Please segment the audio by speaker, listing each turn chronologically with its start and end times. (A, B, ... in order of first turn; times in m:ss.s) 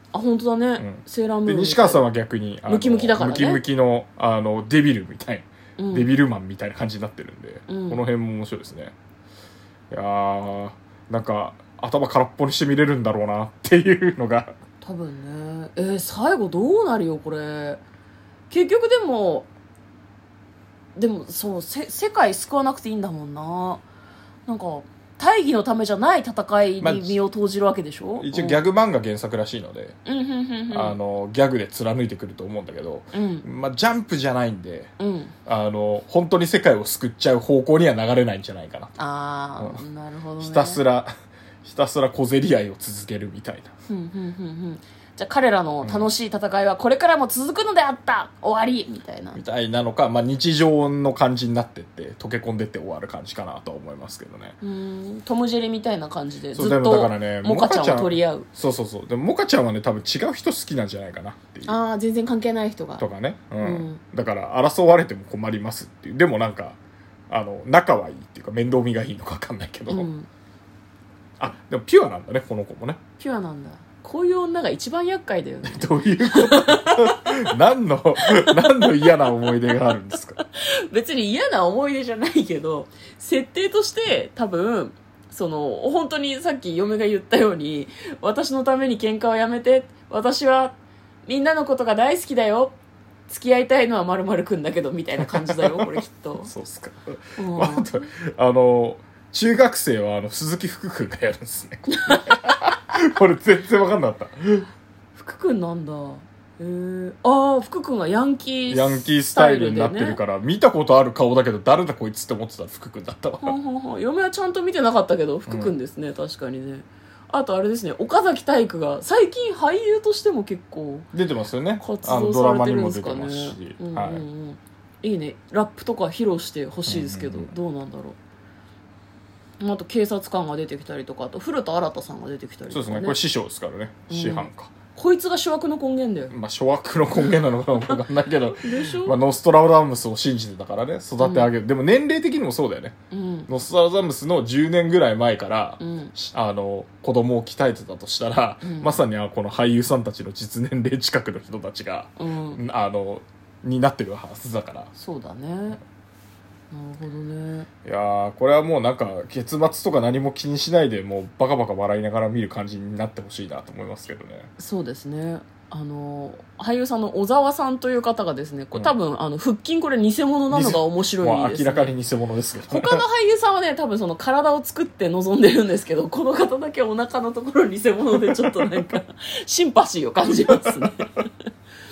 0:00.1-0:02.0 A
0:00.8-0:08.9 B
0:02.7-0:03.6 A
0:05.8-0:06.1 A
0:07.7-0:08.0 A
0:09.9-0:14.5 B
0:14.8-0:17.8 A
0:18.5-0:19.5 A
0:21.0-0:23.8 A
0:24.5-0:28.6 A
0:26.8-0:27.2 B
0:28.2-0:30.0 B
0:30.0-0:31.0 A
0:30.7-0:34.9 B
0:33.1-0:33.4 A
0:35.0-0:35.3 A
0:35.4-0:38.9 B
0:39.0-0:40.8 A
0:39.6-0:39.8 B
0:40.4-0:41.1 B
0:41.6-0:43.7 B
0:43.9-0:49.4 A
0:45.8-0:46.1 B
0:49.3-0:54.6 B
0:54.6-0:58.5 A
0:56.5-1:01.7 B
1:01.6-1:03.0 A
1:03.0-1:06.8 B
1:03.6-1:04.0 A
1:07.3-1:10.1 B
1:09.9-1:10.3 A
1:11.4-1:13.0 B
1:13.2-1:17.4 A
1:15.6-1:20.4 B
1:18.2-1:32.7 A
1:33.3-1:36.5 A
1:35.2-1:44.7 B
1:37.4-1:37.9 A
1:41.9-1:42.6 A
1:45.1-1:50.2 A
1:48.7-1:53.6 B
1:53.4-2:01.1 A
1:55.5-1:55.7 B
2:01.1-2:04.2 B
2:01.8-2:08.2 A
2:06.9-2:07.5 B
2:09.6-2:13.2 A
2:12.7-2:14.7 B
2:14.1-2:16.3 A
2:16.3-2:22.9 B
2:18.6-2:19.2 A
2:21.2-2:21.5 A
2:23.1-2:23.5 A
2:23.5-2:34.9 B
2:25.8-2:26.1 A
2:28.6-2:29.0 A
2:32.2-2:32.6 A
2:35.0-2:35.8 A
2:36.7-2:37.7 A
2:37.8-2:44.5 B
2:44.6-2:51.9 A
2:50.5-2:53.0 B
2:52.7-3:01.3 A